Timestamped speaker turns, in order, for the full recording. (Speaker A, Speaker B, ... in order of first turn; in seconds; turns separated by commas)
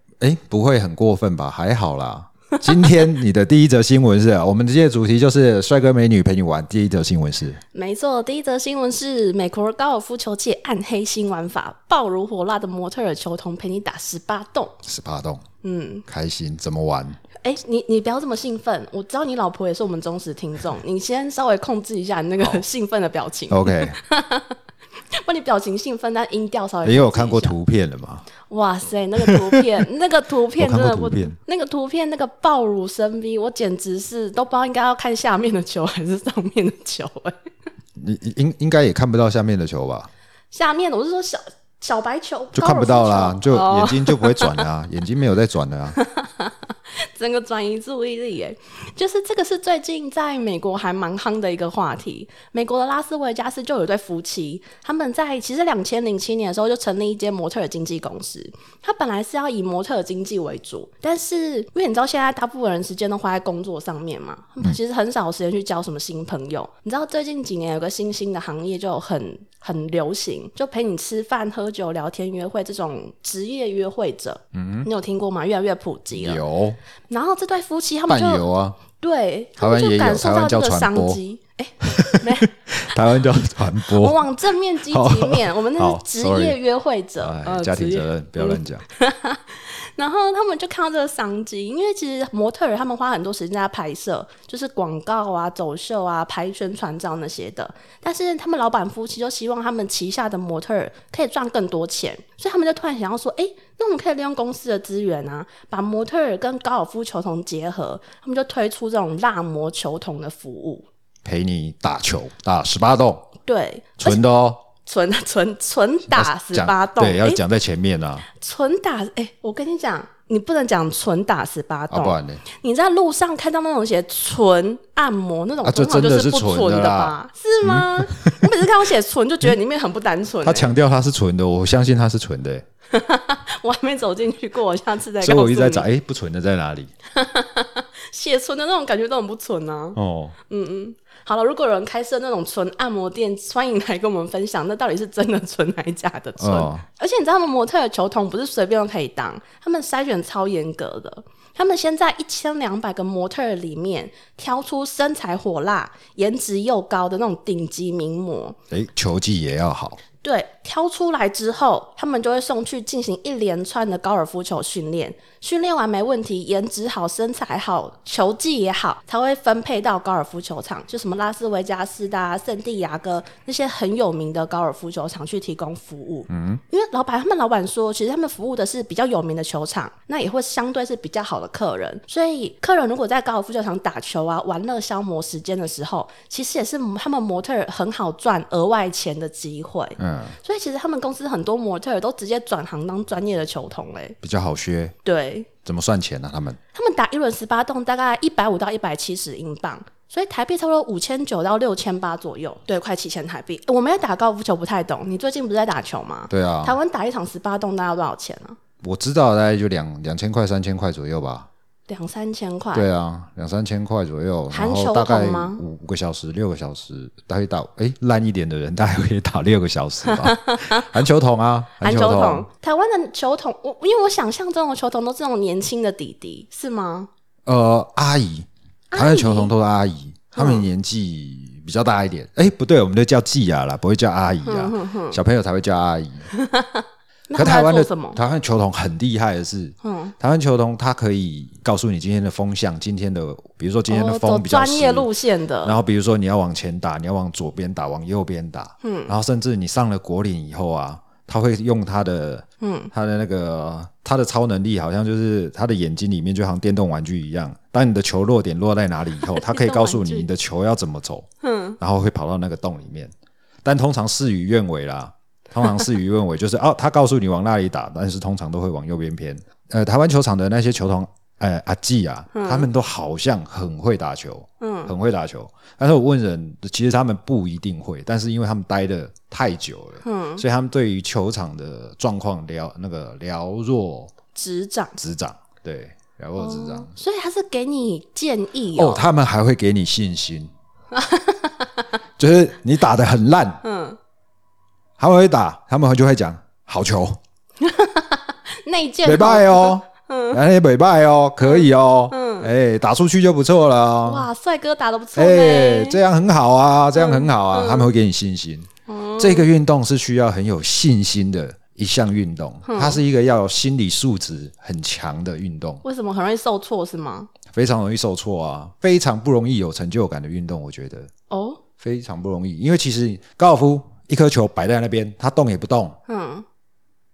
Speaker A: 0.2-7.6, Speaker B: 7.7-14.8, Speaker A: 14.8-15.4, Speaker B: 15.6-16.1, Speaker A: 16.1-17.2, Speaker B: 17.4-24.6, Speaker A: 23.5-24.0, Speaker B: 25.1-27.6, Speaker A: 26.8-28.3, Speaker B: 28.4-37.4, Speaker A: 29.2-29.7, Speaker A: 30.6-31.4, Speaker A: 38.0-40.1, Speaker B: 40.5-44.7, Speaker A: 42.5-46.0, Speaker B: 46.0-76.4, Speaker A: 74.5-74.9, Speaker A: 76.1-76.8, Speaker B: 77.1-82.5, Speaker A: 78.1-78.8, Speaker A: 79.6-81.2, Speaker A: 81.8-84.3, Speaker B: 83.8-110.8, Speaker A: 84.8-86.6, Speaker A: 87.2-88.8, Speaker A: 111.2-113.3, Speaker B: 113.4-114.2, Speaker A: 114.0-114.6, Speaker B: 114.8-117.4, Speaker A: 116.1-118.3, Speaker B: 118.4-130.7, Speaker A: 121.9-122.4, Speaker A: 125.6-128.4, Speaker A: 130.4-132.6, Speaker B: 132.9-135.9, Speaker A: 135.2-136.9, Speaker B: 137.1-140.0, Speaker A: 139.9-140.3, Speaker B: 140.5-158.6, Speaker A: 146.4-146.8, Speaker A: 158.7-160.0, Speaker B: 160.2-194.2, Speaker A: 176.3-176.6, Speaker A: 190.0-190.4, Speaker A: 194.2-194.9, Speaker B: 195.0-195.5, Speaker A: 195.6-196.6, Speaker B: 196.7-208.6, Speaker A: 206.3-206.8, Speaker A: 208.8-211.5, Speaker B: 211.9-212.8, Speaker A: 212.7-222.5, Speaker B: 214.5-215.6, Speaker B: 220.0-221.0, Speaker B: 221.8-227.1, Speaker A: 227.4-236.3, Speaker B: 228.9-229.5, Speaker B: 230.3-230.7, Speaker B: 234.4-235.2, Speaker B: 236.3-238.2, Speaker A: 237.3-245.1, Speaker B: 239.8-240.1, Speaker B: 243.9-245.8, Speaker A: 245.6-261.3, Speaker B: 248.8-249.1, Speaker B: 252.6-252.9, Speaker B: 259.2-260.3, Speaker B: 261.4-261.8, Speaker A: 261.8-263.1, Speaker A: 263.6-284.1, Speaker B: 272.3-272.7, Speaker B: 274.6-274.9, Speaker B: 280.0-280.4, Speaker B: 284.3-285.0, Speaker A: 285.0-286.9, Speaker B: 286.4-289.0, Speaker A: 288.7-290.5, Speaker B: 290.9-291.8, Speaker A: 292.2-293.6, Speaker B: 293.6-294.0, Speaker A: 295.0-297.2, Speaker B: 297.6-300.4, Speaker A: 299.0-304.3, Speaker B: 301.4-302.5, Speaker B: 304.0-306.0, Speaker A: 305.1-315.8, Speaker B: 306.9-307.9, Speaker B: 308.9-309.5, Speaker B: 312.6-313.0, Speaker B: 315.8-317.3, Speaker A: 317.5-321.1, Speaker B: 321.3-321.6, Speaker A: 321.8-326.0, Speaker B: 326.1-326.4